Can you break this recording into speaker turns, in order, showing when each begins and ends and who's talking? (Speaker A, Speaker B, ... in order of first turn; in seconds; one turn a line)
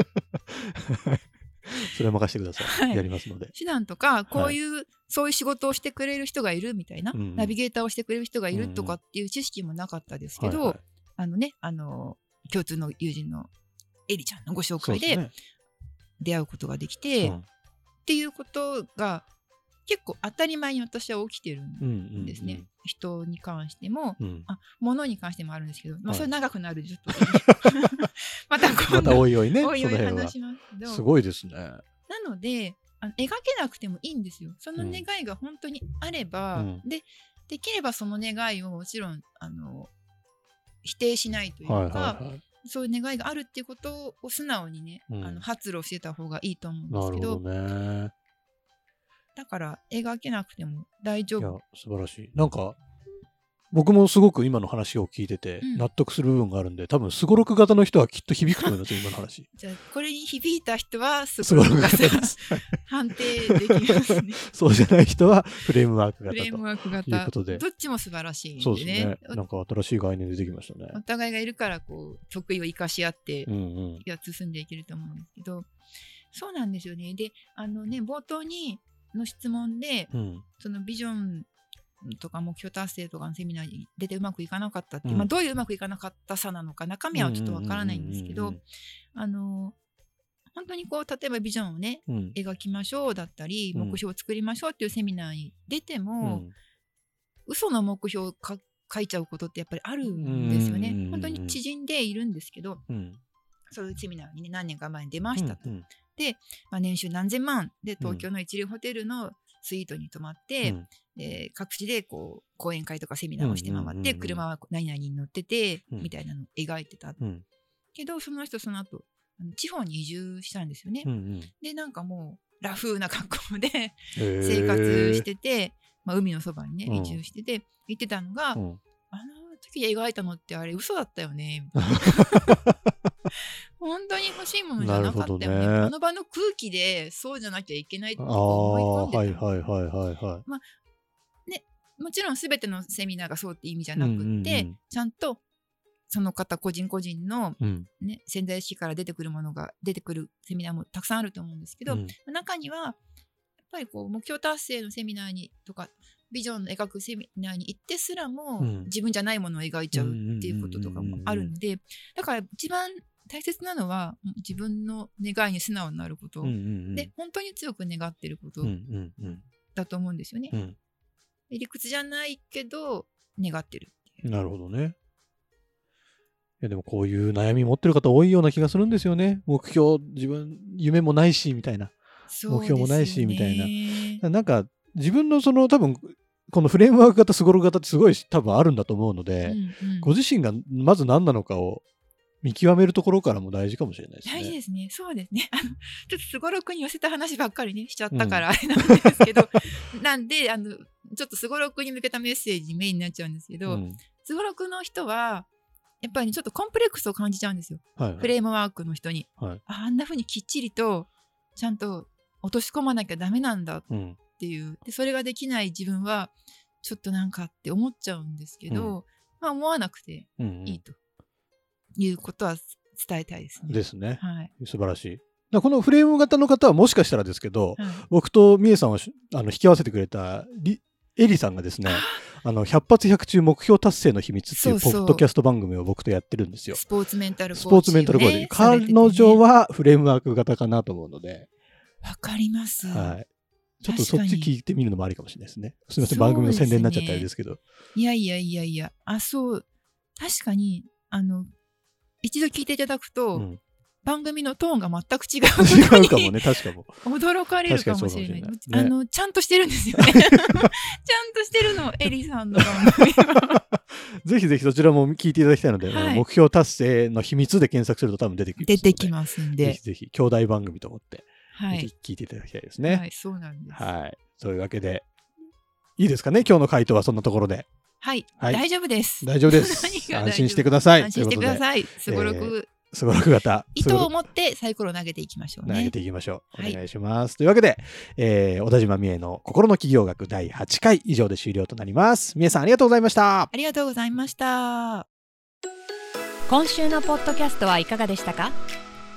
Speaker A: 0.5-3.5
Speaker B: 2.6-13.5
Speaker A: 7.1-7.5
Speaker A: 8.5-9.0
Speaker A: 10.4-10.8
Speaker B: 14.1-15.3
Speaker A: 14.8-15.3
Speaker B: 16.2-17.4
Speaker B: 18.0-19.3
Speaker B: 19.9-31.1
Speaker A: 21.8-22.7
Speaker A: 24.2-24.5
Speaker A: 27.1-27.5
Speaker A: 28.9-31.8
Speaker B: 32.1-39.9
Speaker A: 34.8-35.0
Speaker A: 36.5-36.8
Speaker B: 40.8-47.4
Speaker A: 41.6-42.4
Speaker A: 45.1-45.4
Speaker A: 46.9-48.1
Speaker B: 49.3-51.6
Speaker A: 51.4-52.8
Speaker A: 53.7-59.5
Speaker B: 55.6-55.9
Speaker B: 59.5-64.4
Speaker A: 61.4-62.7
Speaker A: 64.5-67.6
Speaker B: 66.3-69.4
Speaker A: 68.6-71.0
Speaker B: 70.9-75.7
Speaker A: 73.5-74.0
Speaker B: 76.3-81.5
Speaker A: 80.1-80.4
Speaker B: 82.0-88.6
Speaker A: 85.0-85.3
Speaker A: 87.1-88.6
Speaker B: 89.1-89.8
Speaker B: 90.5-96.5
Speaker A: 92.1-92.3
Speaker A: 93.7-94.0
Speaker A: 96.2-96.5
Speaker B: 97.5-102.8
Speaker A: 100.0-101.6
Speaker A: 102.9-103.2
Speaker B: 103.7-117.2
Speaker A: 105.3-105.8
Speaker A: 108.0-108.2
Speaker A: 113.4-114.4
Speaker B: 117.9-132.5
Speaker A: 121.0-121.5
Speaker A: 124.1-125.2
Speaker A: 126.8-127.2
Speaker A: 131.9-132.7
Speaker B: 133.8-139.4
Speaker A: 134.8-135.9
Speaker A: 138.2-140.4
Speaker B: 141.4-145.4
Speaker A: 143.9-144.8
Speaker B: 146.1-153.0
Speaker A: 147.6-147.9
Speaker A: 151.9-152.1
Speaker B: 153.7-168.7
Speaker A: 158.6-158.9
Speaker A: 159.9-161.5
Speaker A: 166.4-167.1
Speaker A: 168.6-169.4
Speaker B: 169.7-170.6
Speaker B: 171.5-174.2
Speaker A: 174.2-174.9
Speaker A: 176.6-181.9
Speaker B: 182.3-184.2
Speaker A: 182.5-191.8
Speaker B: 189.4-190.1
Speaker A: 192.4-194.5
Speaker B: 194.2-205.5
Speaker A: 198.1-198.4
Speaker A: 203.7-204.0
Speaker B: 206.0-221.0
Speaker A: 208.0-208.3
Speaker A: 213.9-214.2
Speaker A: 218.7-218.9
Speaker A: 220.4-220.8
Speaker B: 221.9-224.5
Speaker A: 223.7-236.8
Speaker B: 227.8-228.1
Speaker B: 231.8-232.2
Speaker B: 234.5-235.2
Speaker B: 236.7-239.4
Speaker A: 237.5-241.5
Speaker B: 242.0-243.2
Speaker A: 242.9-243.3
Speaker A: 243.8-247.6
Speaker B: 243.8-244.5
Speaker B: 246.0-247.3
Speaker B: 247.9-249.6
Speaker B: 250.2-251.5
Speaker B: 252.2-253.5
Speaker A: 253.3-253.6
Speaker B: 254.0-256.4
Speaker A: 255.6-257.0
Speaker B: 257.0-263.6
Speaker A: 257.6-258.9
Speaker A: 263.8-273.1
Speaker B: 265.8-266.2
Speaker B: 268.6-269.8
Speaker B: 271.5-271.9
Speaker B: 272.8-273.9
Speaker A: 273.7-275.1
Speaker A: 276.0-277.7
Speaker B: 278.0-282.7
Speaker A: 278.4-278.6
Speaker A: 279.2-284.1
Speaker B: 283.7-285.9
Speaker A: 285.6-293.5
Speaker B: 286.5-286.8
Speaker B: 293.5-295.1
Speaker C: 296.5-298.5